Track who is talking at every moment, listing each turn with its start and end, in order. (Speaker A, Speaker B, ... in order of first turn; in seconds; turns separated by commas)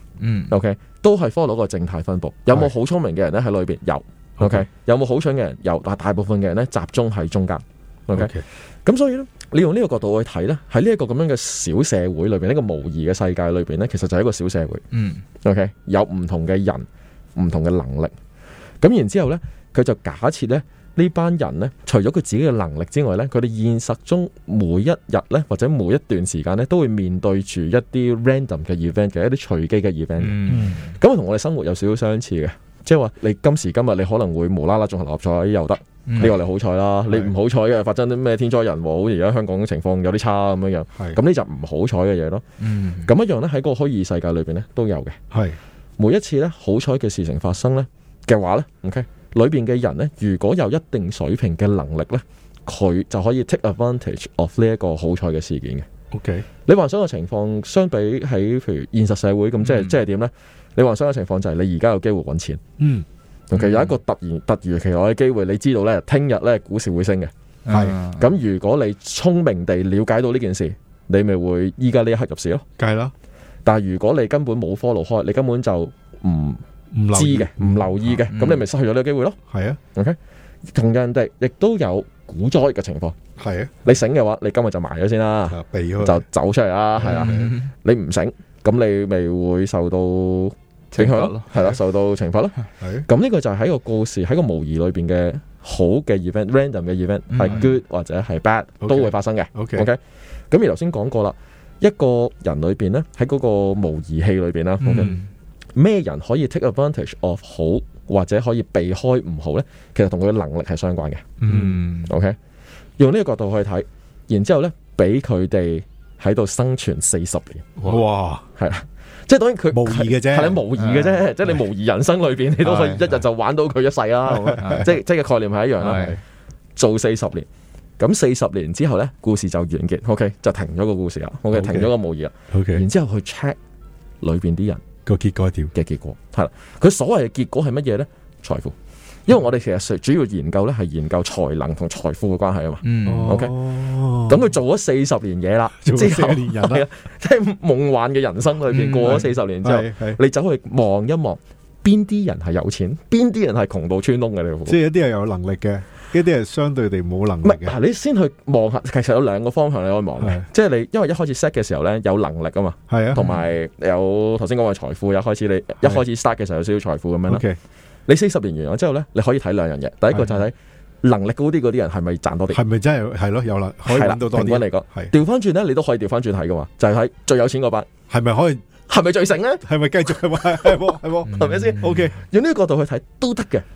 Speaker A: 0.2-0.5, Speaker B: 0.5-8.3, Speaker C: 4.4-4.6, Speaker C: 8.1-8.4, Speaker B: 8.8-14.8, Speaker A: 14.9-15.2, Speaker B: 15.4-18.1, Speaker B: 18.8-42.4, Speaker A: 30.2-30.9, Speaker C: 30.5-30.8, Speaker A: 36.1-36.3, Speaker A: 42.6-43.1, Speaker B: 43.0-45.2, Speaker C: 45.3-45.6, Speaker B: 46.0-55.9, Speaker C: 56.1-56.4, Speaker B: 56.6-62.6, Speaker A: 59.6-59.9, Speaker C: 62.8-63.0, Speaker B: 63.5-67.3, Speaker A: 63.5-63.9, Speaker A: 67.6-68.2, Speaker C: 67.7-68.0, Speaker B: 68.2-72.6, Speaker C: 72.8-73.1, Speaker B: 73.6-76.6, Speaker C: 76.9-78.2, Speaker B: 77.1-79.4, Speaker A: 78.3-78.6, Speaker C: 79.5-79.8, Speaker B: 80.7-83.2, Speaker C: 83.4-83.7, Speaker B: 83.8-100.0, Speaker C: 85.5-86.2, Speaker C: 87.0-87.5, Speaker A: 87.0-87.7, Speaker A: 90.9-91.5, Speaker C: 92.8-93.0, Speaker A: 97.3-97.7, Speaker C: 98.8-99.9, Speaker B: 100.5-105.2, Speaker A: 104.8-105.3, Speaker B: 105.7-111.4, Speaker A: 111.4-112.1, Speaker C: 111.5-111.8, Speaker B: 112.1-112.3, Speaker B: 113.0-117.7, Speaker C: 117.8-118.4, Speaker B: 118.6-126.1, Speaker C: 119.7-120.6, Speaker A: 120.8-121.2, Speaker A: 122.6-123.1, Speaker C: 124.3-124.8, Speaker A: 124.4-124.9, Speaker A: 125.8-126.2, Speaker C: 125.8-126.2, Speaker B: 126.8-127.5, Speaker B: 128.0-133.6, Speaker C: 131.5-131.9, Speaker C: 132.5-132.8, Speaker B: 134.2-134.8, Speaker C: 135.1-135.7, Speaker B: 135.7-138.7, Speaker B: 139.3-143.5, Speaker A: 142.8-143.3, Speaker C: 143.1-144.4, Speaker B: 144.2-154.8, Speaker C: 145.8-146.8, Speaker A: 148.7-149.3, Speaker C: 149.0-150.2, Speaker C: 154.7-157.8, Speaker B: 157.4-167.4, Speaker C: 160.2-160.4, Speaker C: 162.9-163.2, Speaker C: 167.3-167.6, Speaker B: 168.1-172.6, Speaker C: 172.5-175.1, Speaker B: 173.8-177.9, Speaker C: 178.1-178.6, Speaker B: 178.9-179.6, Speaker C: 179.6-182.2, Speaker B: 180.4-183.6, Speaker A: 181.3-181.9